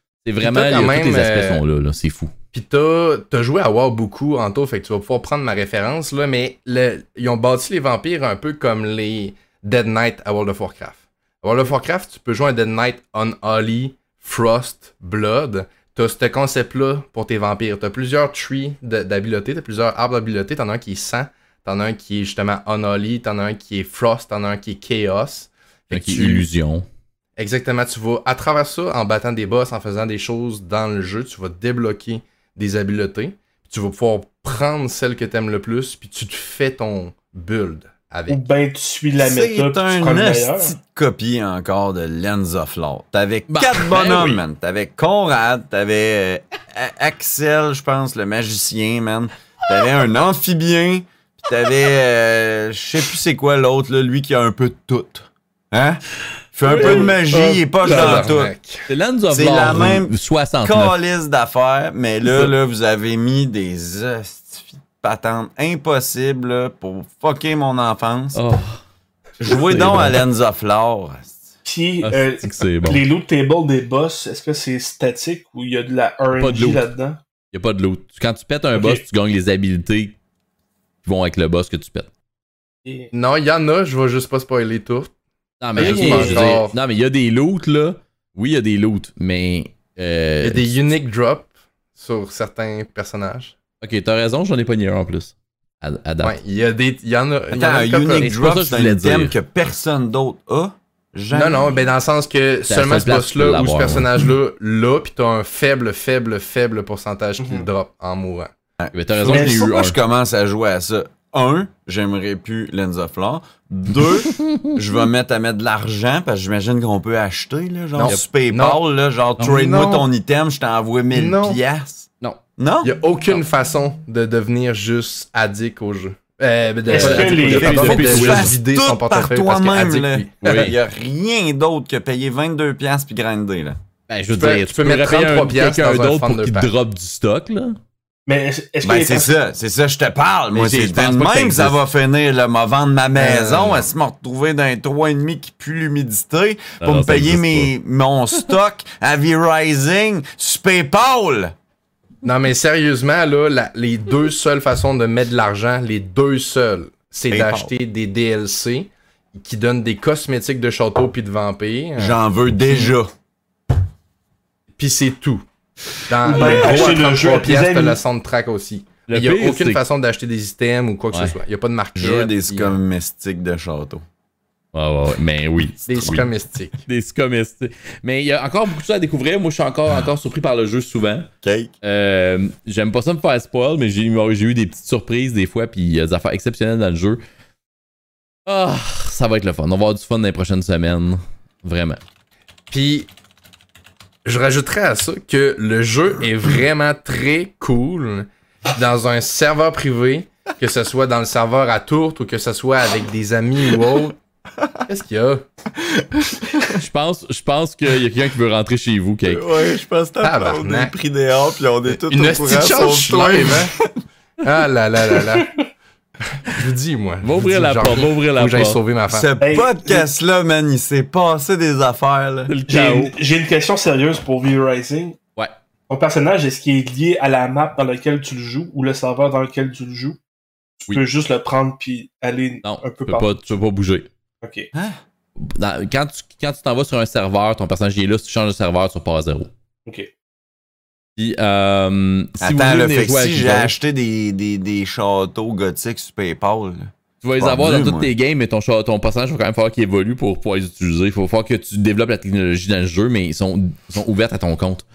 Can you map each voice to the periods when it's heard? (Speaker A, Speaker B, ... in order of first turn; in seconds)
Speaker A: 0.2-2.3, 25.9-26.9, 43.5-44.4, 56.7-57.2, 57.9-58.2, 58.9-61.0, 62.3-62.5, 68.3-68.8, 69.5-70.2, 72.0-73.0, 76.3-76.9, 77.5-80.2, 81.0-82.1, 85.6-90.8, 93.8-96.4, 98.1-99.3, 102.7-104.2, 108.9-110.0, 114.3-114.7, 126.9-128.6, 130.4-130.8, 134.1-137.8, 140.5-141.8, 146.8-147.7, 169.1-169.8, 174.7-176.3, 176.9-181.3, 181.8-187.2, 188.5-192.0, 206.7-209.5, 217.2-218.8, 222.5-223.1, 232.6-234.1, 235.4-239.5, 241.2-243.7, 247.2-254.9
Speaker B: 0.4-1.6, 2.5-26.4, 27.4-38.4, 57.8-58.8, 83.1-85.1, 85.8-86.8, 90.4-93.5, 96.2-98.3, 101.3-108.5, 118.0-118.8, 119.4-120.1, 121.1-121.6, 122.8-130.7, 134.4-136.7, 143.2-143.9, 152.2-162.2, 164.8-165.4, 166.1-172.8, 175.9-176.8, 192.7-193.1, 194.2-204.2, 204.9-205.4, 210.2-210.9, 211.9-213.7, 214.4-215.5, 216.4-219.3
Speaker C: 38.3-40.8, 56.7-58.3, 71.7-77.2, 78.8-79.0, 82.8-83.1, 85.8-86.5, 107.4-107.7, 109.3-109.7, 126.9-128.1, 138.3-139.3, 166.2-168.0, 219.4-220.0, 222.7-225.2, 225.9-230.2, 230.8-233.3, 234.4-234.7
Speaker D: 39.2-56.0, 56.5-58.5, 59.3-68.4, 69.4-71.5, 97.5-101.8, 108.8-122.9, 127.4-133.8, 138.8-151.5, 157.3-157.7, 162.0-163.1, 166.4-166.9, 172.0-174.0, 181.4-181.7, 209.2-214.0, 219.1-222.5, 234.7-235.0, 242.4-248.1